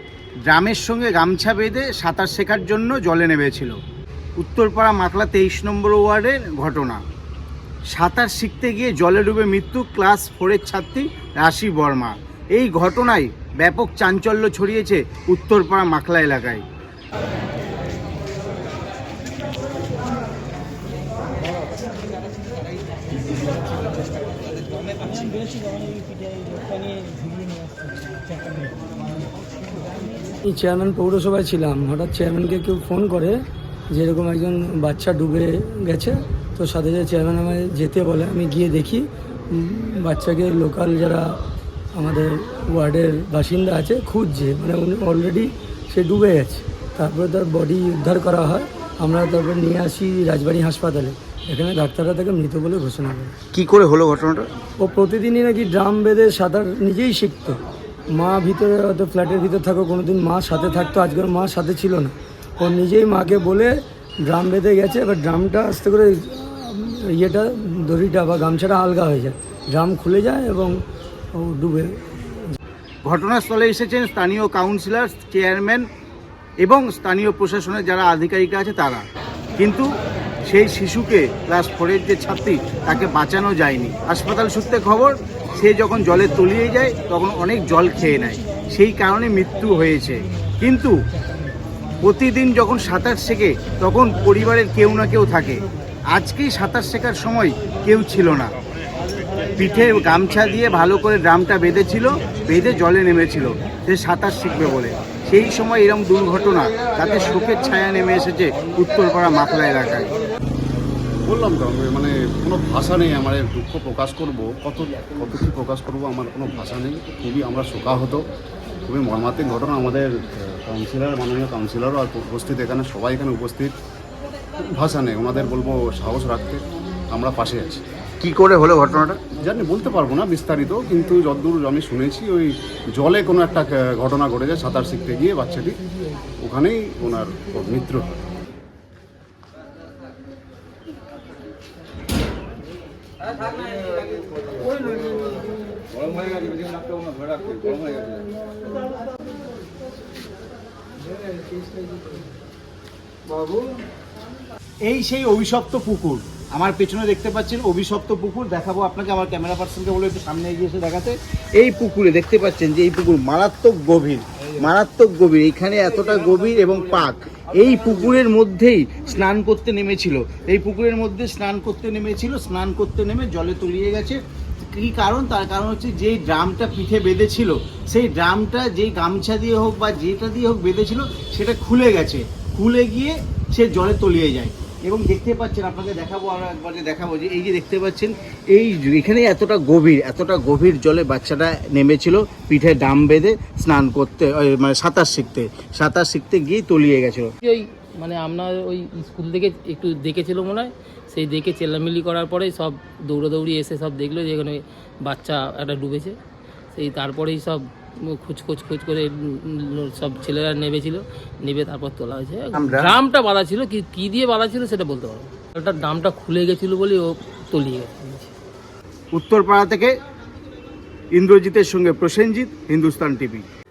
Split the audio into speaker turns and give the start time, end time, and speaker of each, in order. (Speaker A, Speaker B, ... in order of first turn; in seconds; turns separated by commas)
Speaker A: 0.5-3.8, Speaker A: 4.4-7.0, Speaker A: 7.9-16.6, Speaker B: 30.5-33.4, Speaker B: 33.9-41.3, Speaker B: 42.0-53.3, Speaker A: 53.5-54.5, Speaker B: 54.8-57.6, Speaker B: 58.1-63.7, Speaker B: 64.2-70.8, Speaker B: 71.3-72.5, Speaker A: 73.0-75.8, Speaker A: 76.6-79.0, Speaker A: 79.6-79.9, Speaker A: 80.5-91.0, Speaker A: 92.0-95.6, Speaker A: 96.1-98.5, Speaker A: 99.6-110.1, Speaker C: 111.2-118.2, Speaker C: 118.9-123.7, Speaker C: 124.7-126.6, Speaker C: 127.1-127.8, Speaker A: 128.2-129.2, Speaker C: 129.3-135.8, Speaker C: 136.4-138.1, Speaker A: 154.8-197.3, Speaker D: 197.4-206.2, Speaker D: 206.7-218.3, Speaker A: 212.5-212.9, Speaker A: 219.1-219.9, Speaker A: 221.1-223.4